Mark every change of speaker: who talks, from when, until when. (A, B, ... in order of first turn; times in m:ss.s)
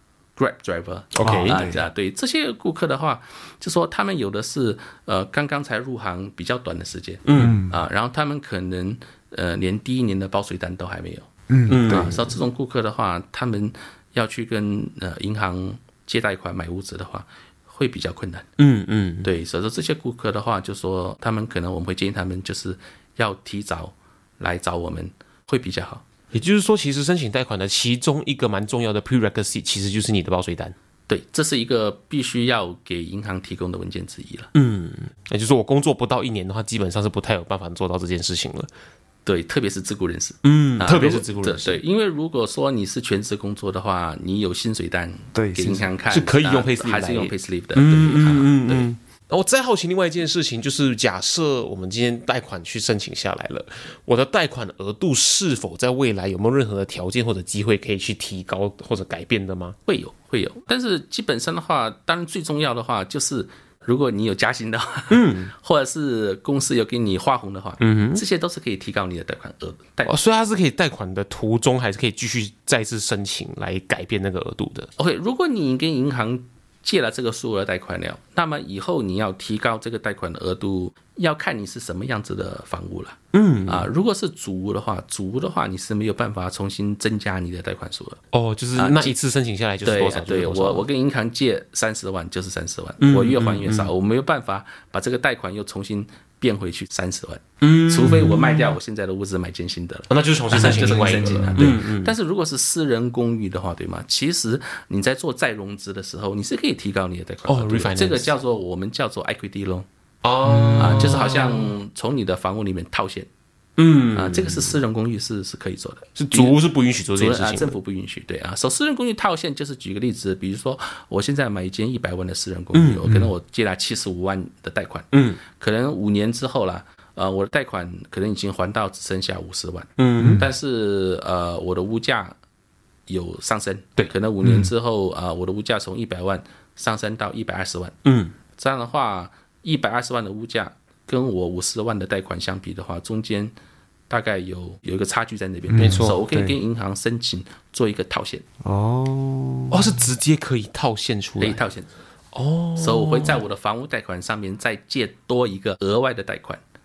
0:00.4-0:11.3 A
0:01.1-0:01.6 B
0:01.2-0:01.8 C
0:07.2-0:07.6 B
0:07.4-0:07.8 C
0:11.5-0:12.1 C
0:11.7-0:12.3 B
0:11.8-0:18.5 A
0:18.6-0:19.3 B
0:19.2-0:26.0 A
0:26.3-0:30.7 B
0:31.1-0:34.5 A
0:34.5-0:38.7 B
0:39.2-0:48.8 A
0:40.4-0:41.8 B
0:45.3-0:45.9 C
0:46.1-0:59.8 B
0:59.9-1:10.1 A
1:05.1-1:05.5 B
1:07.8-1:08.2 B
1:10.1-1:14.9 B
1:15.0-1:28.2 A
1:23.3-1:23.9 B
1:28.3-1:30.8 B
1:28.7-1:29.1 A
1:29.8-1:49.9 A
1:33.0-1:33.9 B
1:37.6-1:38.8 B
1:40.1-1:42.1 B
1:47.5-1:48.3 B
1:50.2-1:51.7 B
1:50.4-1:51.2 C
1:50.8-1:53.3 A
1:53.8-1:54.7 B
1:54.1-1:56.6 A
1:56.2-1:57.7 B
1:57.2-2:12.4 A
2:02.7-2:03.1 B
2:05.1-2:05.4 B
2:10.0-2:10.4 B
2:10.2-2:10.5 C
2:13.1-2:18.0 A
2:14.4-2:14.7 C
2:18.0-2:18.3 B
2:18.6-2:23.5 A
2:24.1-2:28.4 A
2:25.7-2:26.5 C
2:25.7-2:26.2 B
2:28.6-2:30.0 C
2:29.7-2:31.6 B
2:31.4-2:31.9 A
2:32.3-2:33.4 B
2:32.8-2:36.6 A